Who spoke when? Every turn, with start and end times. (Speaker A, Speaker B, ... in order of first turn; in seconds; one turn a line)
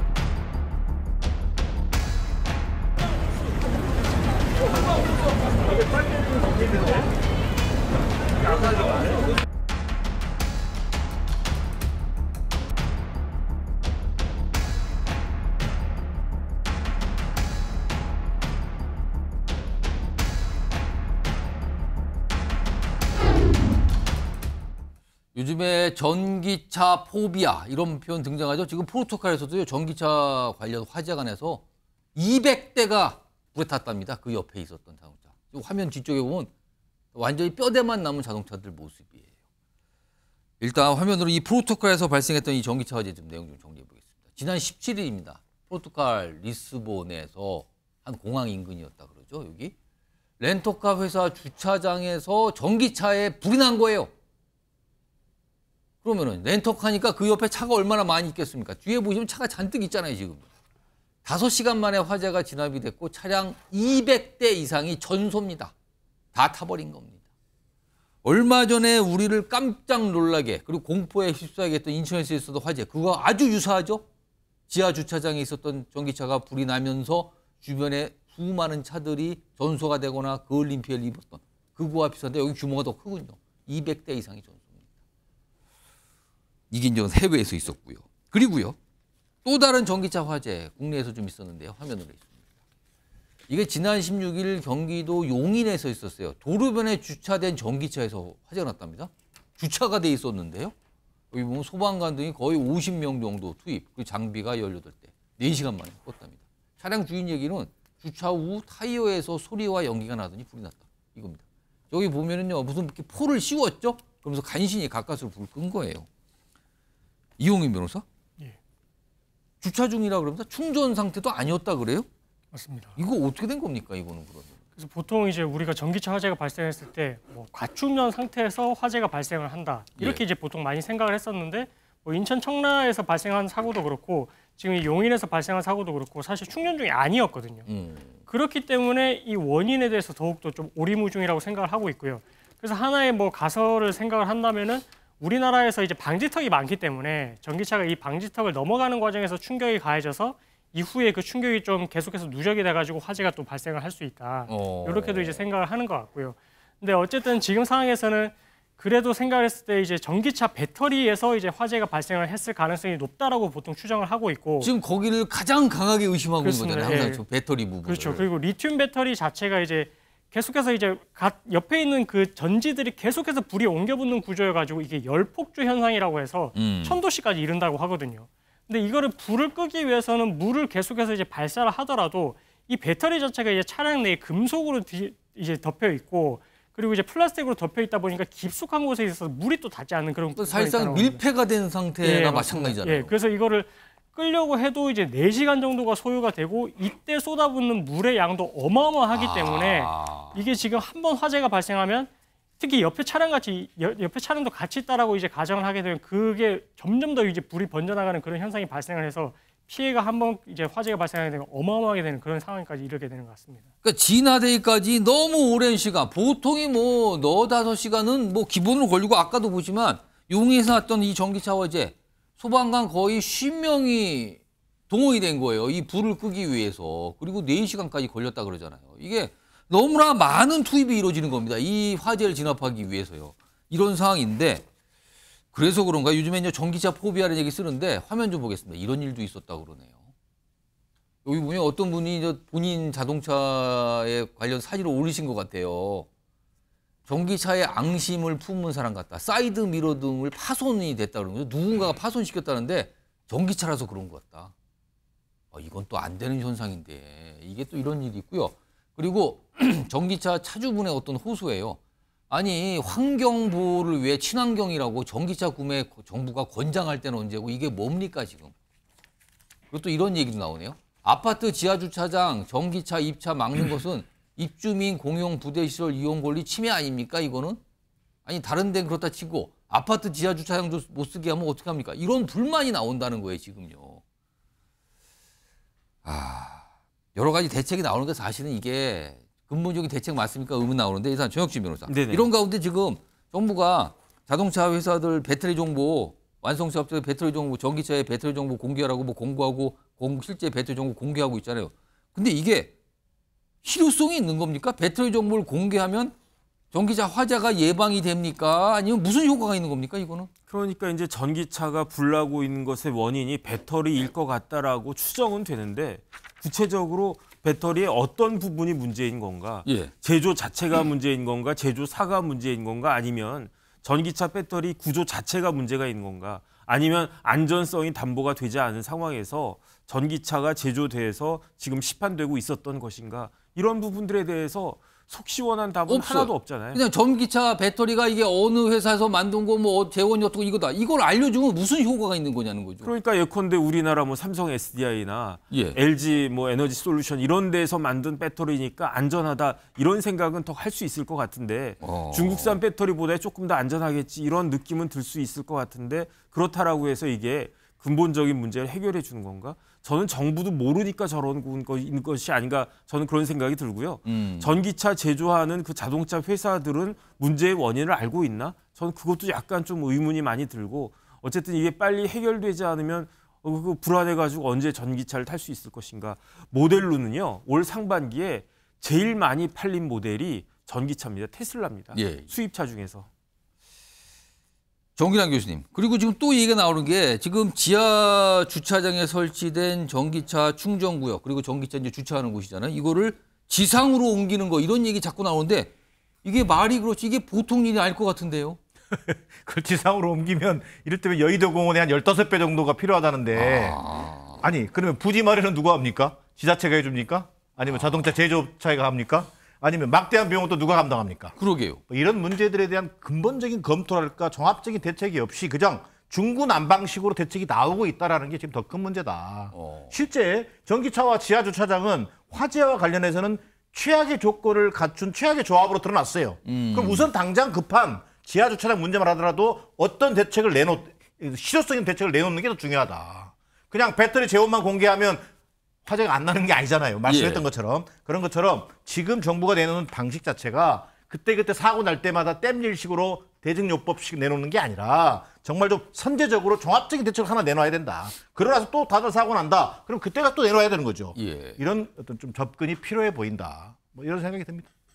Speaker A: 25.4-31.6
Speaker A: 32.1-36.5
Speaker A: 37.1-39.3
Speaker A: 40.6-49.7
Speaker A: 50.4-54.1
Speaker A: 56.0-60.5
Speaker A: 61.2-65.7
Speaker A: 66.3-67.2
Speaker A: 68.2-74.0
Speaker A: 74.7-84.8
Speaker A: 86.7-88.8
Speaker A: 89.4-92.3
Speaker A: 93.5-100.7
Speaker A: 101.3-116.1
Speaker A: 117.4-118.0
Speaker A: 119.6-122.1
Speaker B: 122.5-123.0
Speaker A: 123.0-124.6
Speaker B: 124.8-137.7
Speaker A: 137.7-138.2
Speaker B: 138.3-164.7
Speaker A: 154.5-155.4
Speaker A: 164.6-168.3
Speaker B: 166.4-167.2
Speaker B: 167.8-191.2
Speaker A: 176.6-177.0
Speaker A: 190.4-193.1
Speaker B: 192.0-213.7
Speaker A: 199.1-200.4
Speaker A: 213.8-224.4
Speaker A: 224.9-234.7
Speaker A: 235.5-240.1
Speaker A: 241.2-246.1
Speaker A: 247.1-254.5
Speaker A: 255.5-261.8
Speaker A: 262.3-268.5
Speaker A: 269.7-277.6
Speaker A: 278.3-284.0
Speaker A: 286.1-302.7
Speaker C: 291.9-292.3
Speaker A: 303.6-306.1
Speaker A: 306.7-310.3
Speaker C: 310.5-336.8
Speaker A: 319.7-319.9
Speaker A: 335.9-342.9
Speaker C: 342.8-383.1
Speaker A: 345.5-345.8
Speaker A: 351.8-352.6
Speaker A: 364.1-364.6
Speaker A: 381.9-382.3
Speaker A: 385.0-395.7
Speaker A: 396.2-398.6
Speaker D: 398.9-403.8
Speaker A: 403.3-404.5
Speaker D: 404.4-411.3
Speaker A: 407.7-408.1
Speaker A: 411.4-411.8
Speaker D: 411.9-435.2
Speaker A: 419.5-420.0
Speaker A: 426.4-427.1
Speaker D: 435.9-454.7
Speaker A: 437.1-437.5
Speaker A: 451.1-451.6